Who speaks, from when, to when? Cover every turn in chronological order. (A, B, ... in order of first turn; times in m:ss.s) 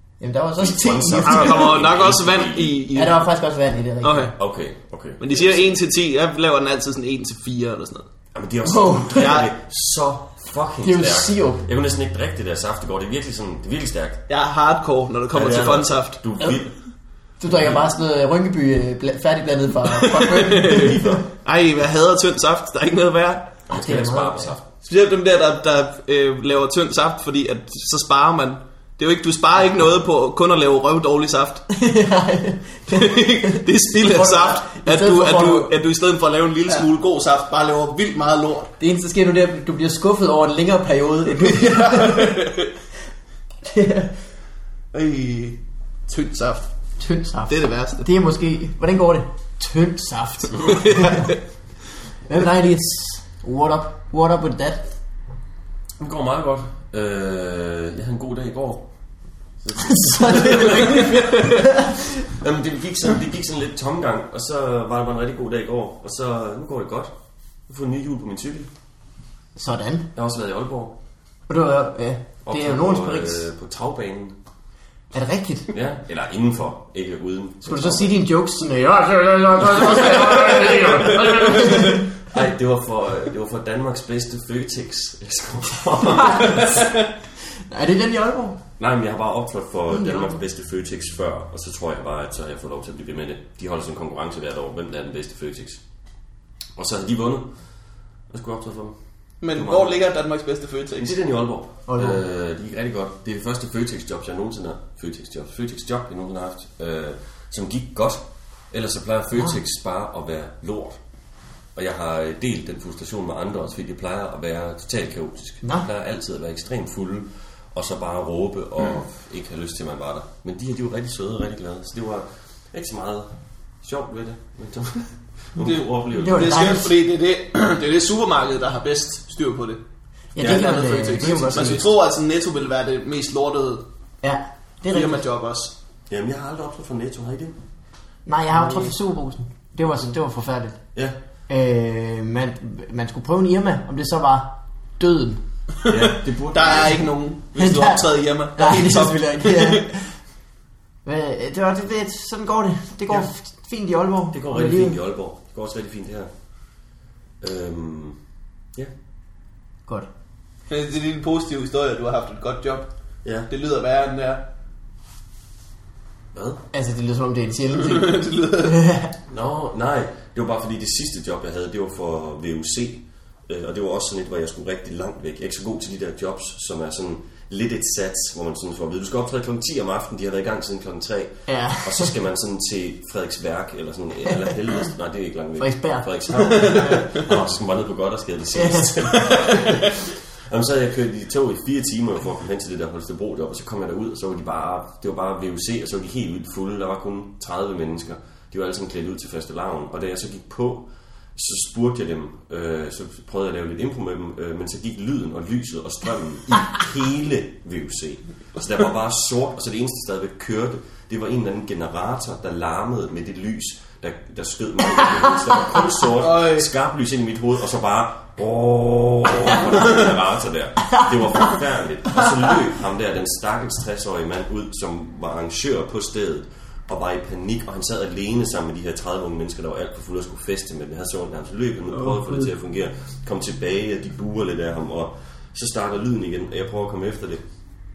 0:00.2-0:01.7 A
0:00.6-0:02.8 B
0:01.2-0:03.2 C
0:02.9-0:04.3 A
0:04.0-0:04.4 C
0:04.4-0:05.8 B
0:05.2-0:08.1 C
0:08.3-0:14.2 B
0:08.6-0:09.4 A
0:09.2-0:09.5 C
0:10.8-0:11.7 A
0:14.3-0:16.2 C
0:15.3-0:16.7 B
0:17.4-0:21.2 A
0:17.5-0:17.8 B
0:20.0-0:23.5 C
0:20.7-0:21.2 B
0:23.7-0:24.7 B
0:23.7-0:24.5 A
0:24.9-0:31.7 C
0:31.7-0:35.7 A
0:32.9-0:38.7 C
0:38.8-0:42.5 A
0:41.4-0:42.7 C
0:43.6-0:44.1 A
0:44.9-0:46.7 C
0:47.0-0:51.4 A
0:47.5-0:48.1 C
0:50.7-0:51.4 C
0:52.3-0:55.0 A
0:56.0-0:58.9 B
0:59.6-1:01.4 B
0:59.8-1:02.2 A
1:02.1-1:07.1 B
1:07.7-1:08.7 B
1:09.6-1:10.1 A
1:10.2-1:11.0 B
1:11.5-1:13.4 A
1:12.4-1:14.4 B
1:15.1-1:15.7 A
1:15.7-1:18.2 B
1:17.7-1:22.1 A
1:19.8-1:27.0 B
1:26.2-1:26.9 A
1:27.7-1:28.6 A
1:28.8-1:35.8 B
1:29.9-1:30.4 A
1:36.8-1:37.5 B
1:38.3-1:39.0 B
1:39.4-1:41.2 C
1:39.5-1:40.0 B
1:41.0-1:51.0 B
1:41.9-1:42.2 A
1:51.8-2:06.7 B
2:05.6-2:09.8 C
2:06.1-2:06.9 A
2:10.4-2:11.8 A
2:10.4-2:10.7 B
2:10.4-2:13.8 C
2:11.2-2:11.8 B
2:14.2-2:15.2 A
2:14.9-2:15.7 C
2:16.1-2:17.6 B
2:18.3-2:20.8 A
2:21.5-2:25.4 A
2:25.8-2:29.9 C
2:25.9-2:27.1 B
2:27.6-2:30.2 A
2:31.0-2:35.0 A
2:34.3-2:36.3 B
2:37.4-2:38.2 B
2:40.7-2:42.9 C
2:43.5-2:44.4 C
2:46.3-2:46.6 B
2:46.7-2:49.1 A
2:47.9-2:48.8 C
2:49.3-3:57.4 B
3:01.5-3:02.1 A
3:05.6-3:07.0 A
3:08.6-3:09.7 A
3:36.2-3:36.7 C
3:52.0-3:52.4 A